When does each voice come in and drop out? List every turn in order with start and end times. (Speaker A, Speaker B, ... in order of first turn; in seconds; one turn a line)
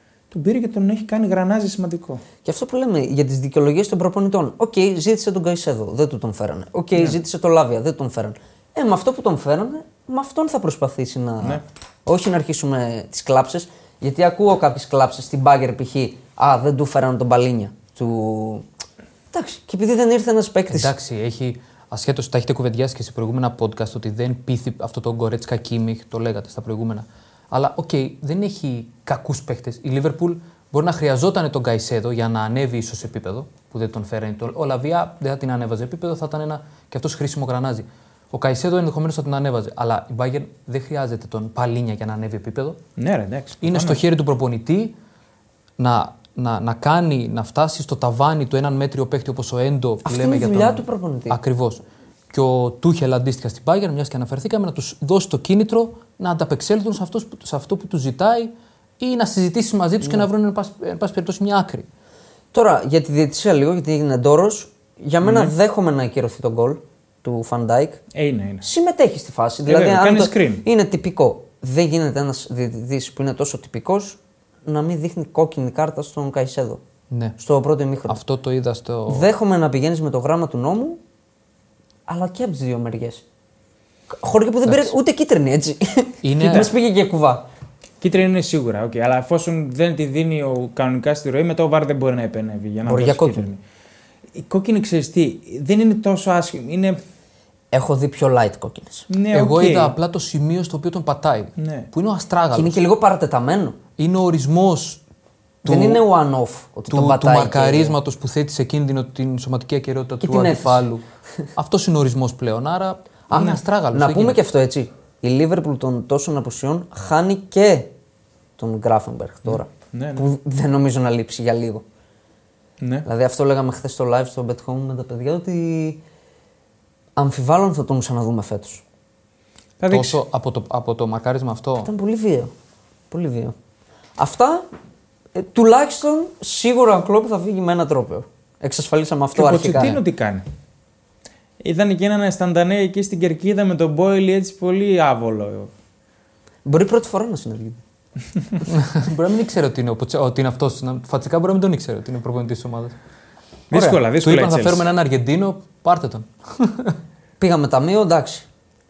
Speaker A: 0.3-2.2
Speaker B: 2.4-18.6
Speaker B: 19.3-20.9
Speaker C: 20.7-42.8
Speaker A: 43.0-44.0
Speaker C: 43.6-45.0
Speaker C: 45.8-61.9
Speaker B: 50.0-51.4
Speaker B: 62.5-68.0
Speaker A: 65.2-65.5
Speaker A: 68.1-68.7
Speaker B: 68.6-76.8
Speaker A: 69.7-70.6
Speaker C: 77.1-77.3
Speaker B: 77.4-78.2
Speaker C: 78.1-79.3
Speaker B: 79.1-81.0
Speaker B: 82.1-83.2
Speaker B: 84.1-87.4
Speaker C: 86.2-86.7
Speaker A: 88.0-93.6
Speaker B: 92.8-93.5
Speaker A: 94.3-97.0
Speaker B: 97.7-99.1
Speaker A: 99.1-99.9
Speaker C: 99.3-102.8
Speaker A: 101.6-101.9
Speaker B: 102.5-103.8
Speaker C: 104.0-105.0
Speaker C: 105.6-106.0
Speaker B: 105.6-107.9
Speaker C: 106.9-111.0
Speaker B: 110.2-110.8
Speaker C: 111.5-114.4
Speaker B: 113.3-117.9
Speaker A: 113.3-113.6
Speaker B: 118.6-121.8
Speaker A: 119.5-120.2
Speaker A: 122.8-123.0
Speaker B: 123.0-126.0
Speaker B: 127.2-128.8
Speaker A: 129.8-130.2
Speaker C: 129.9-131.9
Speaker B: 131.8-132.5
Speaker B: 133.1-133.5
Speaker B: 134.2-134.7
Speaker B: 135.3-140.0
Speaker A: 139.3-140.4
Speaker A: 141.6-145.7
Speaker B: 146.6-147.8
Speaker C: 148.7-152.9
Speaker A: 153.7-154.8
Speaker C: 154.1-157.0
Speaker B: 157.4-158.4